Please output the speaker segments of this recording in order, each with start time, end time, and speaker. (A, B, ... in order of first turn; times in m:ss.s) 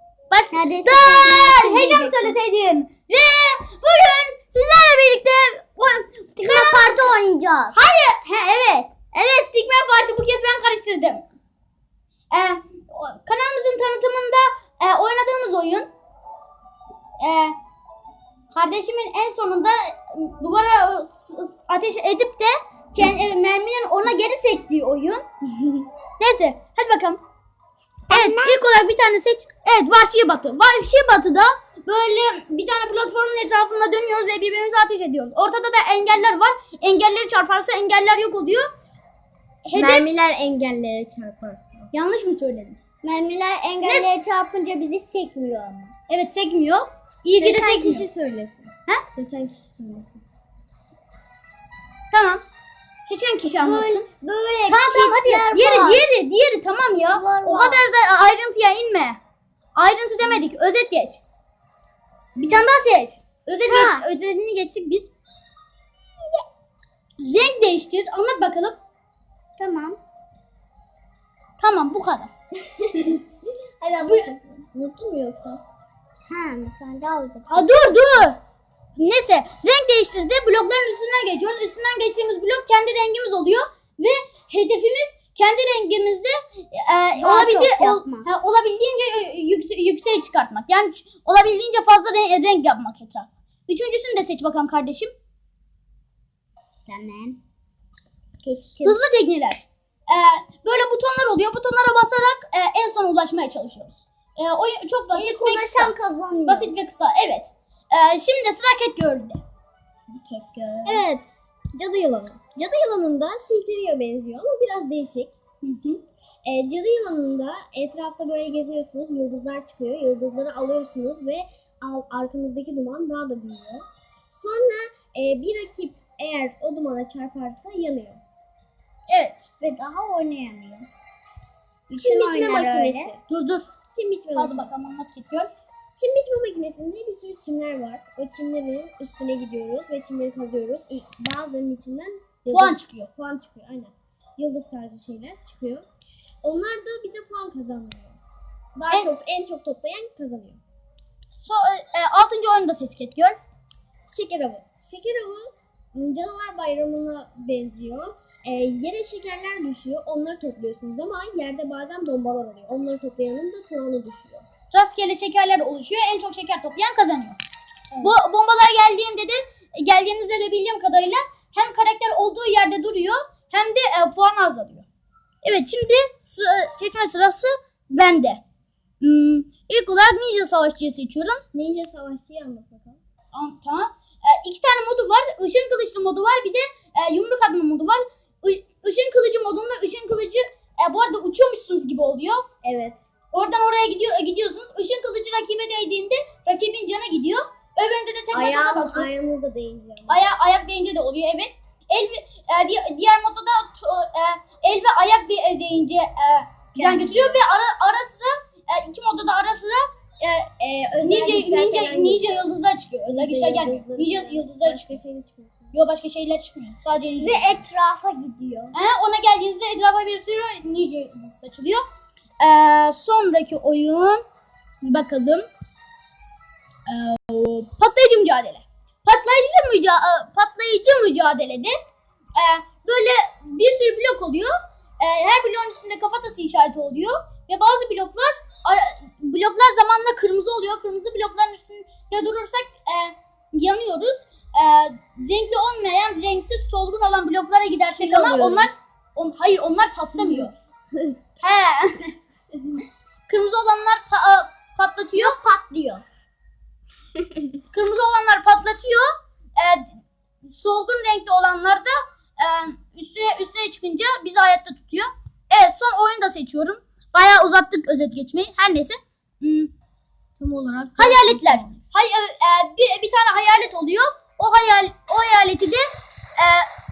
0:00.3-0:07.1 A
0:00.5-0:02.3 B
0:06.4-0:07.8 B
0:07.7-0:11.2 A
0:12.3-0:15.9 A
0:17.2-0:17.5 A
0:18.5-0:27.2 A
0:28.1-0:28.6 B
0:28.1-0:38.7 A
0:39.6-0:40.1 A
0:39.7-0:41.9 C
0:41.9-0:42.8 A
0:43.0-0:45.9 B
0:46.1-0:48.1 A
0:47.4-0:50.2 C
0:52.1-0:52.4 A
0:53.0-0:54.0 A
0:53.6-0:56.0 B
0:54.7-0:59.2 A
0:57.1-0:57.8 C
0:59.8-1:01.2 A
1:02.4-1:05.1 A
1:03.6-1:04.0 B
1:07.2-1:08.8 A
1:09.6-1:10.0 B
1:11.6-1:12.3 A
1:12.9-1:13.2 C
1:13.8-1:15.6 C
1:14.0-1:14.3 A
1:16.3-1:18.0 B
1:17.5-1:18.4 A
1:19.0-1:35.1 A
1:27.2-1:28.3 B
1:36.9-1:37.4 B
1:38.6-1:39.0 B
1:38.8-1:45.9 A
1:45.1-1:46.7 B
1:46.5-1:49.4 A
1:50.2-1:51.0 A
1:50.8-1:55.4 C
1:55.6-1:56.0 A
1:56.4-2:08.2 C
2:09.1-2:09.5 A
2:09.6-2:10.9 B
2:11.9-2:13.1 B
2:11.9-2:13.2 C
2:13.3-2:13.7 A
2:13.9-2:14.8 C
2:14.3-2:15.5 A
2:16.0-2:25.8 C
2:22.5-2:23.1 A
2:26.4-2:28.2 C
2:28.8-2:30.6 C
2:31.3-2:33.4 A
2:34.1-2:44.4 C
2:44.7-2:47.4 A
2:48.0-2:54.8 A
2:55.4-2:58.4 A
2:59.0-3:01.4 A
3:01.5-3:03.0 C
3:03.3-3:12.4 A
3:12.6-3:13.0 C
3:13.3-3:19.1 A
3:18.3-3:20.3 C
3:20.1-3:30.5 A
3:26.8-3:27.4 C
3:30.6-3:32.3 C
3:31.0-3:35.0 A
3:33.1-3:35.7 C
3:35.7-3:37.6 A
3:37.2-3:38.7 B
3:38.7-3:41.8 A
3:42.4-3:44.2 A
3:44.8-3:45.5 A
3:46.9-3:51.7 A
3:52.4-4:10.6 A
4:08.0-4:08.7 C
4:10.2-4:10.5 C
4:11.4-4:12.1 A
4:13.3-4:15.4 A
4:15.1-4:16.0 B
4:17.7-4:19.9 A
4:20.4-4:29.7 A
4:30.4-4:31.8 C
4:31.0-4:35.8 A
4:36.4-4:36.7 A